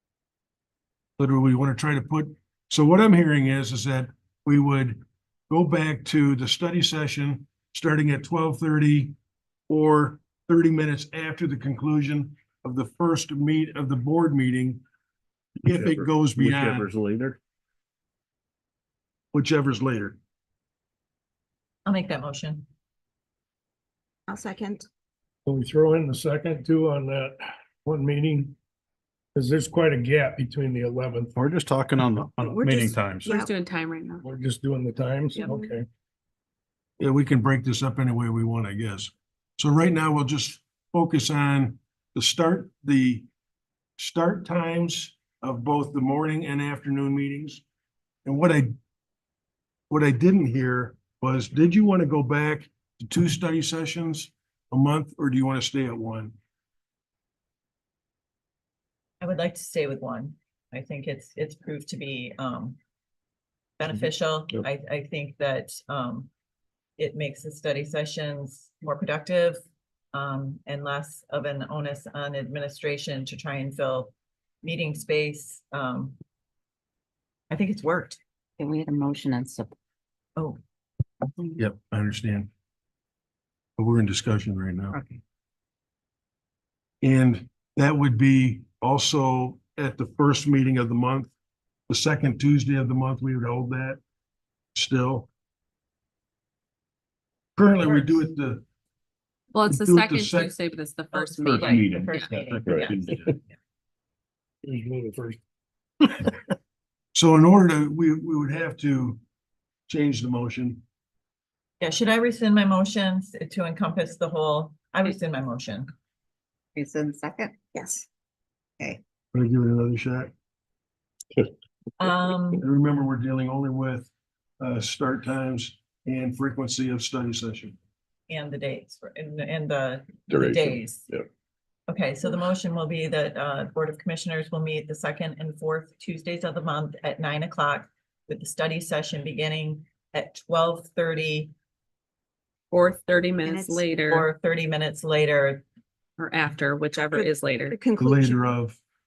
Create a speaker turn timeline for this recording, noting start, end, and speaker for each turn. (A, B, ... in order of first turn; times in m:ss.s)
0:01.2-0:09.2 A
0:09.7-0:14.8 A
0:15.6-0:16.9 A
0:15.6-0:17.4 B
0:19.3-0:20.2 A
0:21.8-0:22.6 C
0:24.3-0:24.8 D
0:25.4-0:28.5 E
0:29.3-0:31.4 E
0:31.4-0:33.3 F
0:32.4-0:33.5 D
0:33.3-0:34.2 G
0:34.2-0:35.8 E
0:35.4-0:35.7 D
0:37.0-0:43.2 A
0:44.0-0:47.6 A
0:48.2-0:48.7 A
0:49.9-0:56.3 A
0:59.2-1:02.8 C
1:03.8-1:06.3 C
1:07.0-1:09.6 C
1:10.1-1:16.2 C
1:17.5-1:18.2 C
1:18.6-1:19.7 H
1:21.6-1:22.5 A
1:23.8-1:25.0 A
1:24.9-1:25.2 H
1:27.0-1:31.3 A
1:31.9-1:34.0 A
1:34.7-1:35.3 A
1:37.6-1:38.6 A
1:37.8-1:38.1 C
1:39.5-1:42.4 G
1:39.7-1:40.5 A
1:41.1-1:43.3 C
1:41.4-1:43.4 F
1:44.6-1:45.4 E
1:46.0-1:46.3 E
1:47.1-1:49.2 A
1:49.9-1:50.8 A
1:51.8-1:55.9 C
1:56.8-1:57.5 H
1:57.7-1:58.0 D
1:59.3-2:00.3 A
2:02.0-2:02.6 C
2:02.6-2:07.8 A
2:08.3-2:11.0 C
2:10.3-2:11.2 B
2:11.9-2:21.5 C
2:22.7-2:24.3 G
2:23.4-2:23.8 D
2:24.0-2:25.6 C
2:26.2-2:27.8 G
2:27.1-2:28.4 D
2:28.0-2:28.8 A